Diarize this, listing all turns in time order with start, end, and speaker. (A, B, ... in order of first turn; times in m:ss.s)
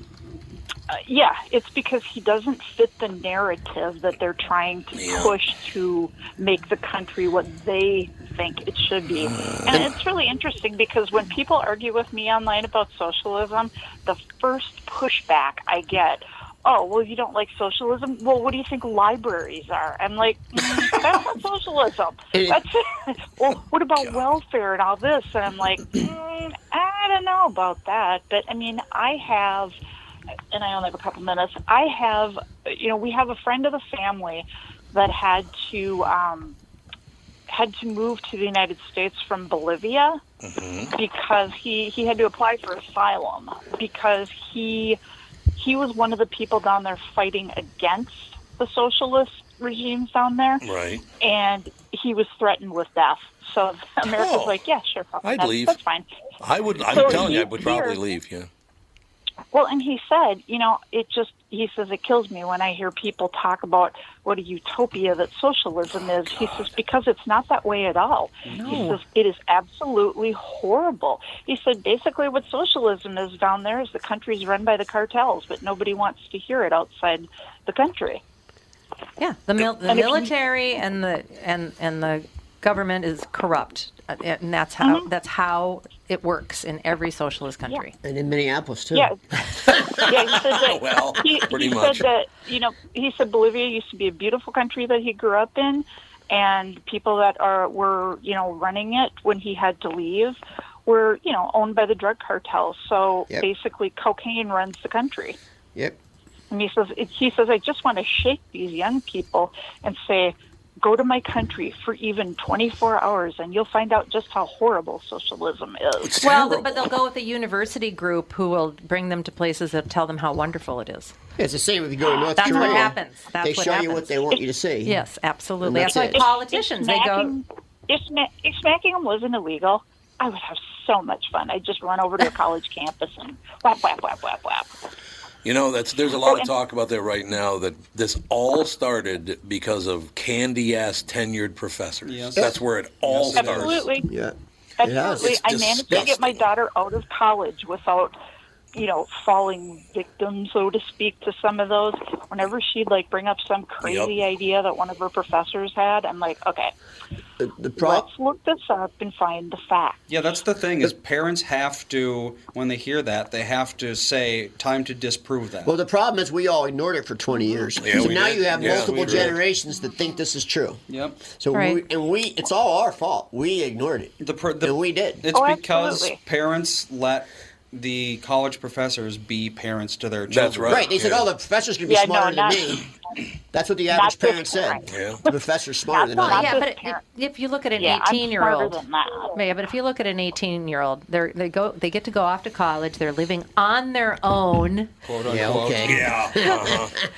0:00.9-0:29.7 A
0:04.9-0:05.4 B
0:09.3-0:09.9 B
0:22.3-0:22.6 C
0:30.5-0:36.6 A
0:37.5-0:40.2 A
0:40.4-0:40.9 B
0:40.9-0:45.0 A
0:45.6-0:50.6 A
0:50.6-0:51.0 B
0:51.2-0:56.0 A
0:54.0-0:54.6 B
0:55.2-0:55.8 B
0:56.4-0:58.5 B
0:56.9-0:58.0 A
0:59.5-1:18.2 A
1:06.4-1:06.7 B
1:08.5-1:08.8 D
1:08.6-1:09.0 E
1:19.2-1:27.9 E
1:19.9-1:20.3 A
1:24.8-1:25.1 A
1:28.0-1:29.1 C
1:29.7-1:45.4 A
1:30.5-1:32.0 B
1:46.5-1:56.1 A
1:56.0-1:56.9 B
1:56.2-2:01.1 E
2:01.4-2:05.0 C
2:02.4-2:07.3 E
2:02.4-2:02.9 A
2:05.6-2:06.2 C
2:06.1-2:14.7 A
2:15.4-2:23.9 B
2:16.2-2:16.5 A
2:22.0-2:23.8 D
2:23.4-2:24.1 A
2:24.0-2:26.1 C
2:24.8-2:28.1 A
2:25.0-2:26.4 B
2:28.7-2:36.7 A
2:33.8-2:34.2 B
2:37.4-2:38.1 C
2:37.8-2:40.0 A
2:40.1-2:45.7 D
2:45.6-2:55.2 C
2:47.8-2:49.4 B
2:48.2-2:49.4 D
2:50.9-2:51.2 D
2:51.5-2:51.8 E
2:54.2-3:00.9 D
2:55.3-2:56.2 A
3:00.3-3:01.3 B
3:00.7-3:02.9 C
3:01.9-3:02.8 A
3:03.5-3:06.6 C
3:03.9-3:04.9 A
3:04.9-3:05.2 B
3:05.9-3:07.0 A
3:06.2-3:08.8 E
3:07.8-3:09.4 A
3:09.3-3:14.9 E
3:15.0-3:16.1 D
3:15.2-3:16.9 C
3:15.8-3:16.9 B